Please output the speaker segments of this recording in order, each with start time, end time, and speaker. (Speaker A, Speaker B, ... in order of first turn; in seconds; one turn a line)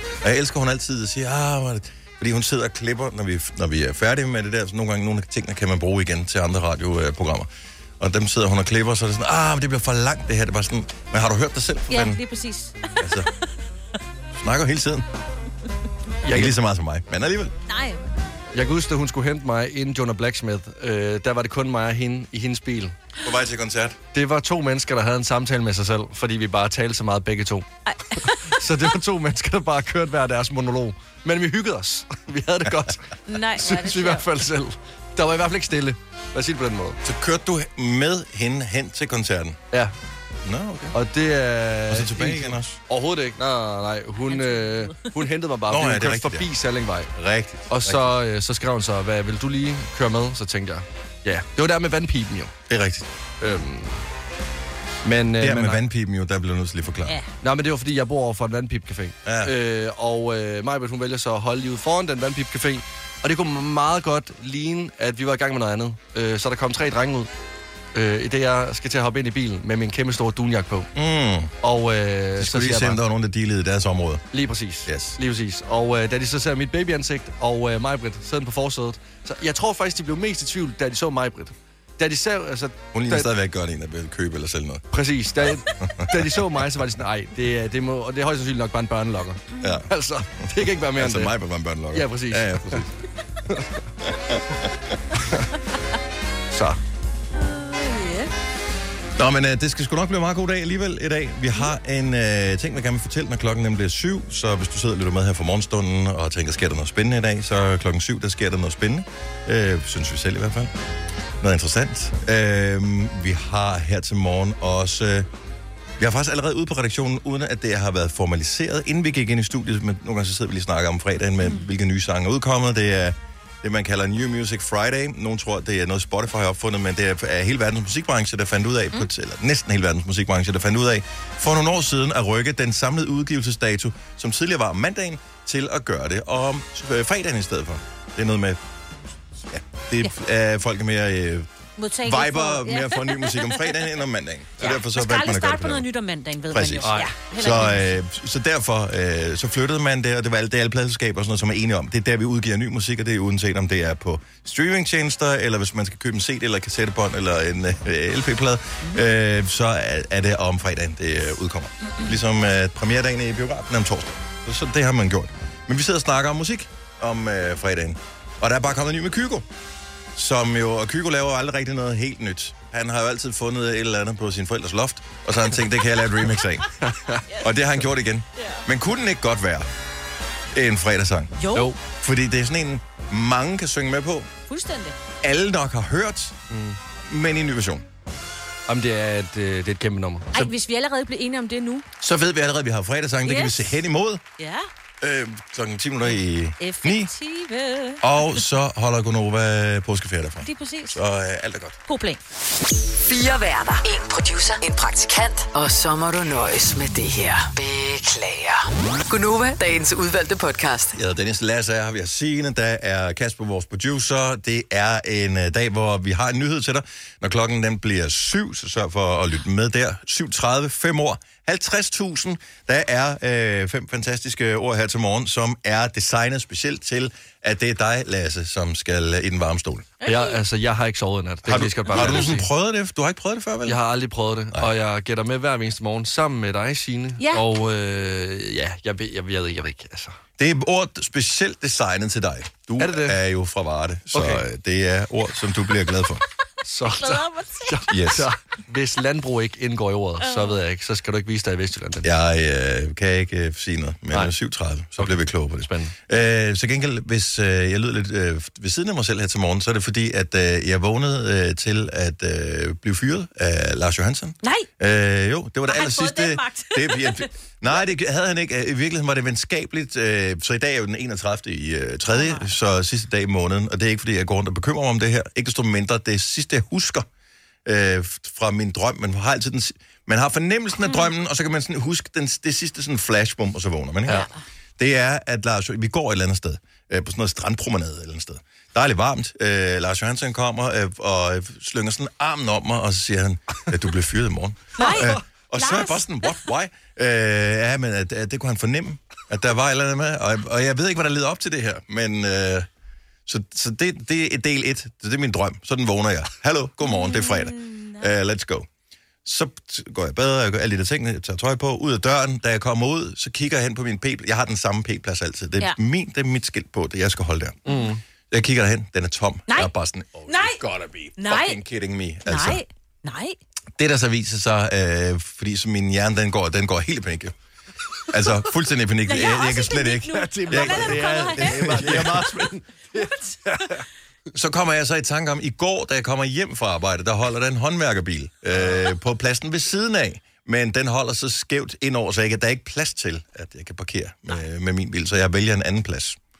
Speaker A: 0.2-7.5
Speaker A: 8.0-12.2
Speaker B: 11.9-13.2
Speaker A: 13.0-13.3
Speaker A: 14.3-15.1
Speaker C: 16.2-16.6
Speaker A: 16.3-17.5
Speaker B: 17.7-18.1
Speaker C: 18.5-22.9
Speaker A: 23.2-24.0
Speaker C: 24.1-27.6
Speaker B: 27.9-28.4
Speaker C: 28.4-37.0
Speaker B: 33.3-34.2
Speaker A: 37.0-39.6
Speaker A: 40.5-41.0
Speaker C: 40.9-47.1
Speaker A: 41.9-42.8
Speaker B: 44.3-44.8
Speaker A: 45.7-46.5
Speaker A: 47.1-48.1
Speaker C: 47.7-52.5
Speaker A: 52.7-53.0
Speaker C: 53.4-53.9
Speaker C: 55.0-55.8
Speaker A: 55.4-57.2
Speaker C: 57.4-67.3
Speaker A: 59.2-59.5
Speaker C: 67.9-70.9
Speaker A: 70.9-71.5
Speaker C: 71.6-73.0
Speaker A: 72.4-74.2
Speaker C: 74.3-83.3
Speaker A: 74.9-75.2
Speaker A: 82.9-84.8
Speaker C: 84.9-91.3
Speaker A: 85.8-86.2
Speaker B: 89.5-89.8
Speaker A: 89.6-89.9
Speaker A: 90.9-92.9
Speaker C: 91.9-92.8
Speaker A: 94.0-94.4
Speaker C: 96.5-96.8
Speaker B: 97.3-98.3
Speaker A: 99.2-110.7
Speaker A: 111.4-115.3
Speaker A: 116.0-138.6
Speaker A: 139.5-141.5
Speaker B: 141.8-143.6
Speaker A: 142.0-145.9
Speaker B: 144.6-148.0
Speaker A: 146.5-169.4
Speaker C: 146.8-147.3
Speaker B: 161.9-162.2
Speaker A: 170.1-176.7
Speaker C: 176.8-177.2
Speaker A: 177.4-179.7
Speaker B: 178.4-178.6
Speaker A: 180.5-181.3
Speaker B: 181.4-181.7
Speaker A: 182.0-184.3
Speaker B: 184.5-185.0
Speaker A: 185.2-186.3
Speaker C: 186.5-186.8
Speaker A: 187.1-187.8
Speaker C: 188.7-190.5
Speaker B: 190.3-191.9
Speaker A: 192.0-194.2
Speaker B: 193.2-193.7
Speaker B: 194.4-194.7
Speaker A: 195.0-197.1
Speaker B: 196.6-198.3
Speaker A: 198.0-201.8
Speaker B: 200.4-201.0
Speaker B: 201.9-202.2
Speaker D: 203.0-210.9
Speaker A: 210.9-229.9
Speaker B: 230.0-230.4
Speaker C: 230.0-232.5
Speaker A: 231.4-233.8
Speaker C: 233.7-240.2
Speaker B: 237.2-237.4
Speaker A: 240.4-246.2
Speaker C: 242.8-243.2
Speaker C: 244.1-244.4
Speaker C: 246.6-252.1
Speaker B: 246.9-247.8
Speaker A: 247.9-248.3
Speaker B: 250.2-250.6
Speaker A: 252.0-277.1
Speaker C: 255.0-255.9
Speaker B: 264.4-264.7
Speaker B: 265.7-267.3
Speaker B: 272.1-272.5
Speaker A: 277.6-302.7
Speaker B: 294.8-296.3
Speaker A: 303.2-308.7
Speaker B: 306.8-308.1
Speaker A: 309.2-317.6
Speaker C: 317.7-318.0
Speaker A: 318.3-322.6
Speaker B: 320.3-320.6
Speaker B: 321.2-321.6
Speaker B: 322.2-323.4
Speaker A: 323.8-327.3
Speaker A: 328.1-332.5
Speaker B: 329.1-332.0
Speaker C: 330.1-333.8
Speaker A: 334.3-346.2
Speaker C: 338.5-338.9